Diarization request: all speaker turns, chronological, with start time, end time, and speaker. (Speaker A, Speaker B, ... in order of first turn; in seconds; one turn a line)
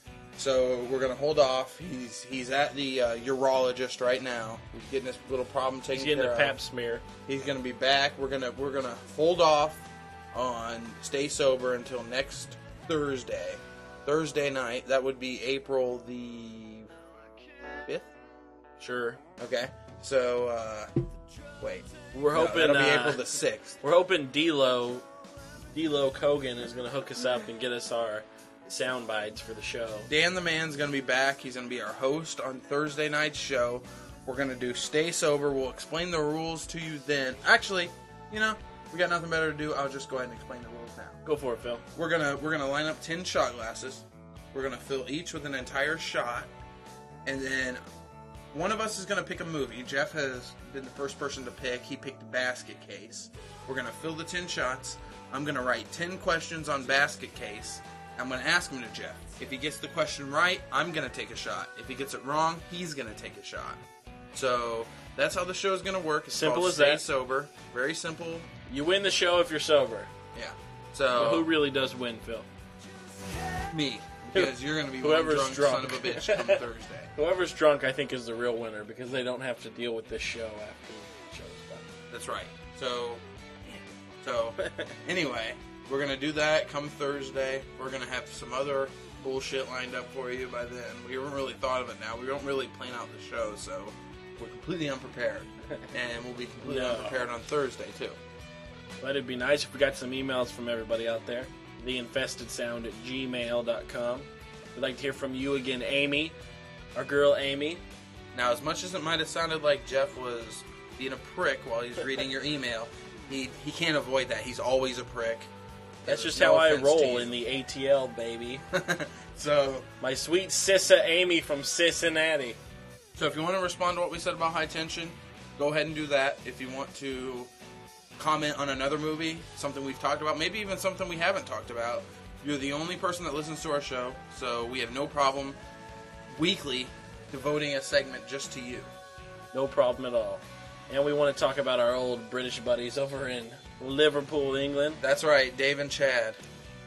Speaker A: 0.3-6.6
Speaker B: 5.9-7.0
Speaker A: 7.2-16.9
Speaker A: 17.8-18.1
Speaker B: 18.8-19.2
Speaker A: 19.4-20.9
Speaker A: 21.6-23.8
Speaker B: 22.1-23.2
Speaker B: 23.8-25.0
Speaker B: 25.7-30.1
Speaker A: 30.1-41.2
Speaker B: 41.2-41.8
Speaker A: 41.9-46.5
Speaker A: 47.2-47.8
Speaker A: 48.5-63.8
Speaker A: 64.3-68.5
Speaker B: 66.3-67.0
Speaker B: 68.7-70.1
Speaker A: 70.3-71.5
Speaker B: 71.1-72.5
Speaker A: 73.7-77.1
Speaker B: 74.3-76.6
Speaker B: 77.2-81.8
Speaker A: 82.1-98.2
Speaker B: 84.6-84.9
Speaker B: 96.6-97.2
Speaker B: 99.0-106.3
Speaker B: 106.9-107.8
Speaker A: 108.3-115.5
Speaker A: 116.0-117.3
Speaker B: 116.0-118.6
Speaker A: 118.7-119.9
Speaker B: 120.0-122.6
Speaker A: 123.1-127.5
Speaker A: 128.2-135.6
Speaker A: 136.3-138.9
Speaker B: 139.5-145.0
Speaker A: 145.0-146.4